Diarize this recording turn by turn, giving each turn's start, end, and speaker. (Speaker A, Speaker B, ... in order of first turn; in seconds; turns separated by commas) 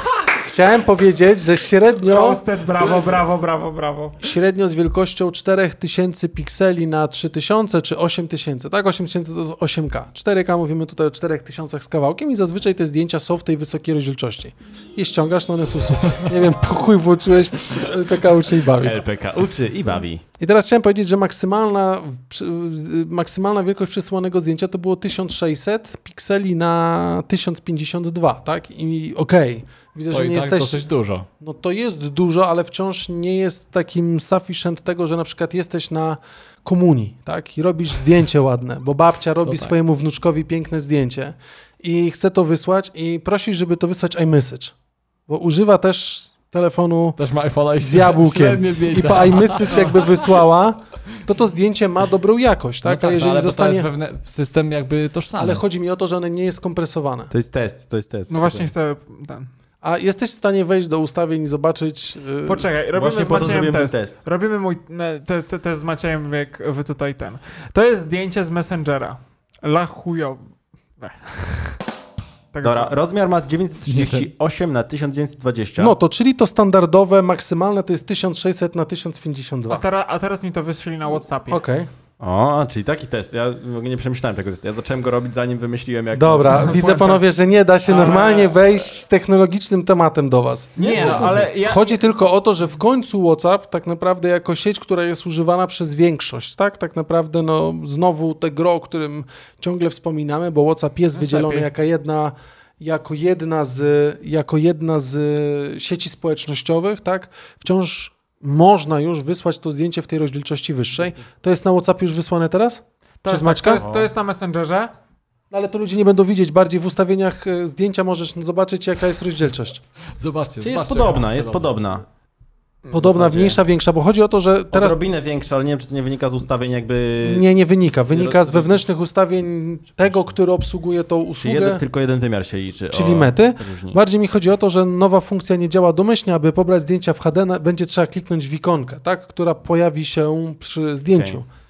Speaker A: 0.3-2.4, Speaker B: 2.1-4.2, Speaker A: 4.2-19.0, Speaker C: 18.7-20.2, Speaker A: 20.4-30.8, Speaker D: 30.1-31.3, Speaker A: 31.4-44.7, Speaker D: 39.5-39.8, Speaker A: 45.3-47.2, Speaker D: 47.2-50.3, Speaker A: 47.8-53.9, Speaker D: 52.8-55.6, Speaker A: 55.4-57.3, Speaker C: 57.3-58.7, Speaker B: 58.3-59.5, Speaker A: 59.8-62.7, Speaker B: 62.5-70.4, Speaker C: 62.9-64.2, Speaker B: 71.0-71.8, Speaker B: 72.5-73.0, Speaker C: 72.6-76.0, Speaker D: 73.8-74.3, Speaker A: 75.8-79.8, Speaker B: 79.7-81.6, Speaker A: 81.5-81.9, Speaker C: 82.2-86.7, Speaker A: 86.1-113.9, Speaker B: 86.5-87.2, Speaker B: 87.9-88.6, Speaker C: 90.8-91.4, Speaker B: 90.8-92.2, Speaker D: 90.8-91.5, Speaker B: 101.2-101.7, Speaker B: 113.2-114.9, Speaker C: 113.7-114.1, Speaker A: 115.5-119.8, Speaker D: 120.2-121.8, Speaker C: 120.6-122.0, Speaker A: 122.9-125.0, Speaker C: 122.9-123.6, Speaker C: 124.7-127.5, Speaker A: 127.2-131.8, Speaker C: 128.1-128.8, Speaker C: 131.4-134.0, Speaker A: 132.9-141.5, Speaker C: 141.2-141.4